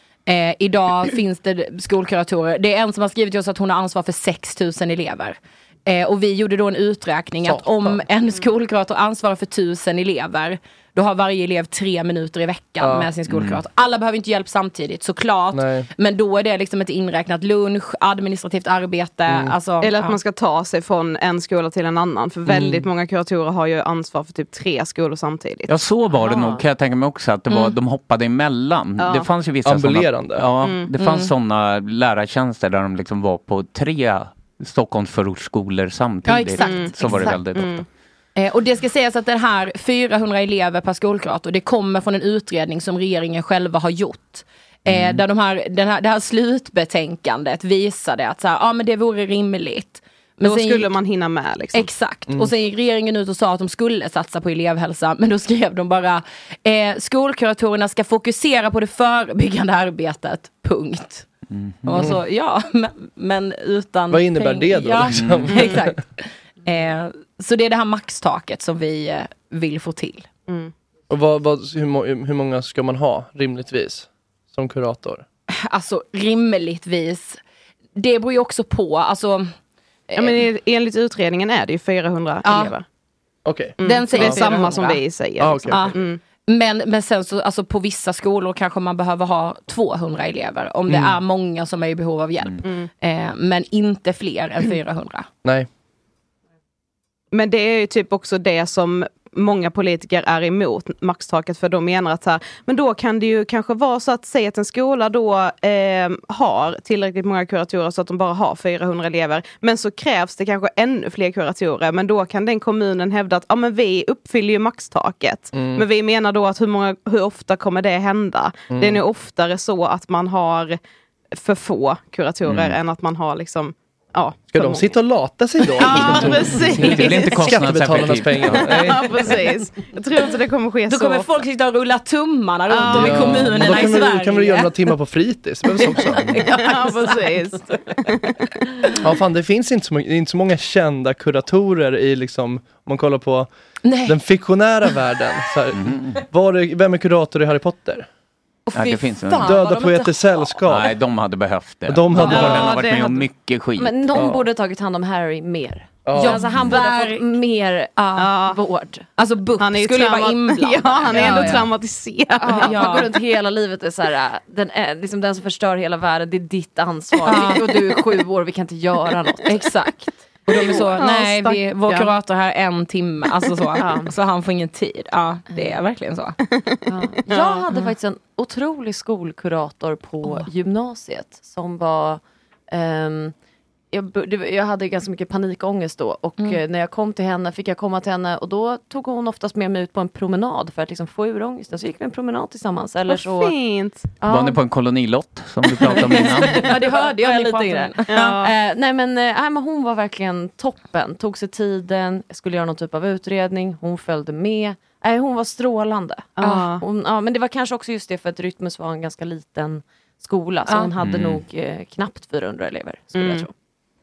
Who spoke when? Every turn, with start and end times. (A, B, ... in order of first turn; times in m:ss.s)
0:00.3-0:20.2 A
0:07.4-0:08.0 B
0:12.8-0:13.1 B
0:13.3-0:13.6 C
0:15.5-0:15.9 B
0:19.3-0:19.5 B
0:19.8-0:25.7 D
0:22.5-0:22.8 B
0:25.7-0:37.8 C
0:29.0-0:29.3 D
0:29.6-0:30.5 B
0:30.6-0:30.9 D
0:31.0-0:31.3 A
0:36.2-0:37.4 A
0:36.6-0:37.8 D
0:38.4-0:50.9 A
0:44.8-0:45.2 C
0:50.4-0:51.9 D
0:51.7-1:01.3 A
1:01.5-1:02.1 C
1:01.8-1:10.3 A
1:01.9-1:02.2 B
1:04.1-1:06.0 B
1:05.1-1:05.6 C
1:10.5-1:10.7 D
1:11.1-1:15.2 B
1:15.5-1:17.4 A
1:18.0-1:19.5 A
1:20.1-1:20.4 A
1:20.2-1:22.8 D
1:22.4-1:22.7 A
1:23.4-1:24.8 B
1:23.8-1:26.2 D
1:23.8-1:25.0 A
1:25.4-1:26.0 B
1:25.7-1:35.3 A
1:30.9-1:31.2 B
1:32.6-1:32.9 D
1:37.3-2:00.8 D
1:55.5-1:55.8 B
1:58.7-1:59.0 B
2:01.4-2:04.9 D
2:02.4-2:02.8 C
2:04.5-2:09.2 B
2:05.6-2:07.5 D
2:06.5-2:08.7 C
2:08.7-2:11.3 D
2:10.9-2:14.7 A
2:12.7-2:13.5 D
2:12.9-2:16.4 B
2:15.8-2:17.4 A
2:16.5-2:18.4 D
2:19.0-2:23.5 B
2:23.8-2:24.2 A
2:24.0-2:28.0 B
2:25.7-2:26.2 C
2:28.7-2:30.6 A
2:28.7-2:29.6 C
2:29.4-2:30.9 B
2:30.6-2:34.0 C
2:31.9-2:32.8 B
2:32.3-2:33.2 D
2:33.8-2:39.1 E
2:34.1-2:34.4 B
2:36.0-2:36.4 B
2:36.1-2:37.2 A
2:38.0-2:38.3 A
2:38.2-2:38.6 D
2:39.2-2:41.7 A
2:39.6-2:43.0 D
2:41.0-2:41.7 E
2:42.4-2:49.7 E
2:42.6-2:43.1 A
2:47.2-2:48.0 A
2:49.4-2:56.4 A
2:50.5-2:52.1 D
2:53.8-2:54.1 E
2:55.5-2:55.8 E
2:56.4-2:57.6 D
2:56.9-3:03.3 E
3:03.9-3:13.6 E
3:13.1-3:14.1 D
3:14.2-3:14.6 E
3:14.3-3:16.7 C
3:15.9-3:33.5 E
3:16.4-3:18.4 A
3:18.1-3:18.5 D
3:26.4-3:26.8 D
3:30.7-3:30.9 A
3:31.0-3:31.4 C
3:33.1-3:33.5 D